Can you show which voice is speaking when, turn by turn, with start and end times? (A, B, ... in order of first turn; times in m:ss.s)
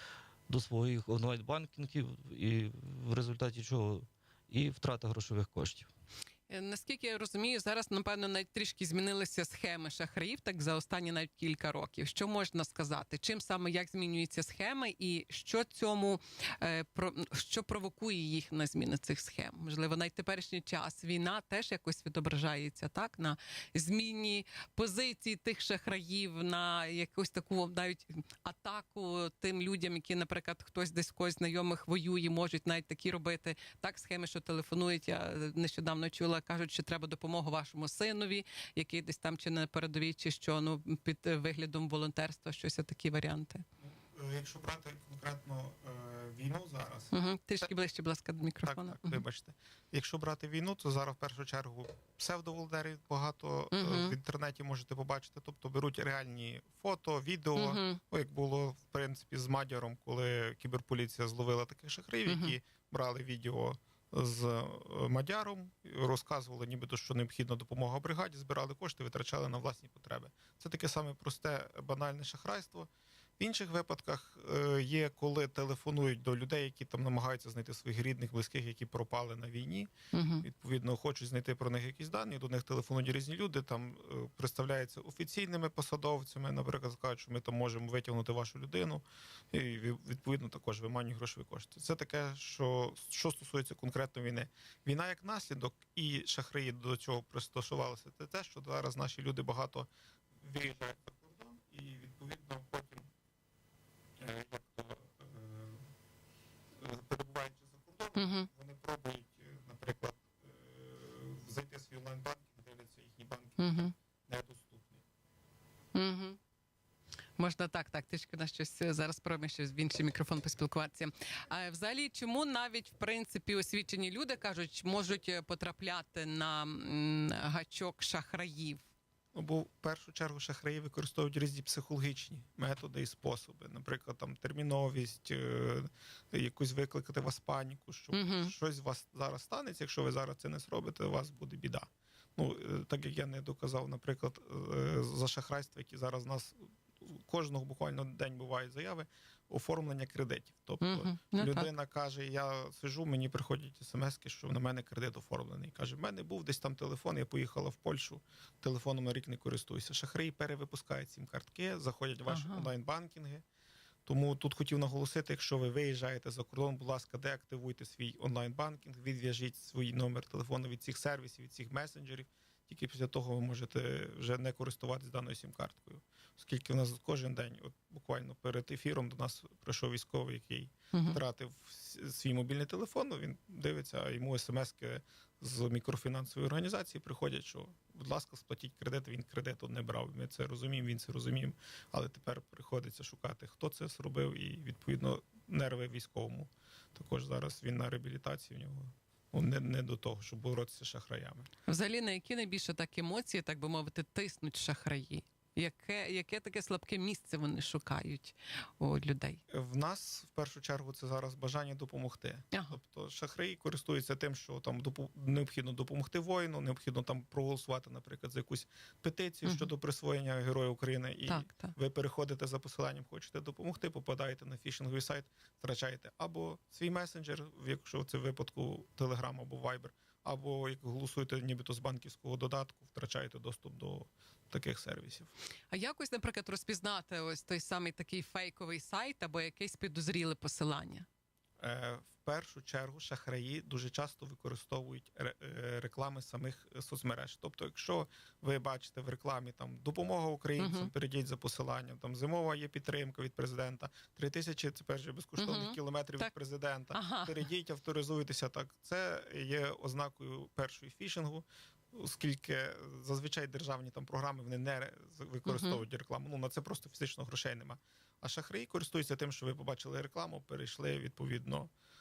0:00.5-0:05.9 A
0:06.5-0:43.6 B
0:43.8-0:47.1 C
0:47.1-0:49.2 B
0:48.6-1:19.9 C
0:53.7-0:54.2 B
0:57.6-0:58.0 B
1:02.2-1:02.6 B
1:20.1-1:20.4 B
1:20.4-1:39.9 C
1:40.4-1:43.1 C
1:44.2-1:45.8 C
1:46.8-1:55.0 C
1:48.1-1:48.5 B
1:53.6-1:53.9 B
1:55.9-1:56.4 B
1:57.4-2:08.8 B
2:09.3-2:43.4 C
2:18.1-2:18.5 B
2:30.8-2:31.7 B
2:42.3-2:42.7 B
2:44.0-3:21.5 C
3:00.9-3:01.2 B
3:21.7-3:29.4 B
3:29.5-3:55.3 C
3:39.4-3:39.7 B
3:41.3-3:41.7 B
3:55.7-4:01.0 B
4:01.6-4:31.7 C
4:10.6-4:10.9 B
4:15.4-4:16.3 B
4:16.9-4:17.4 B
4:25.4-4:25.8 B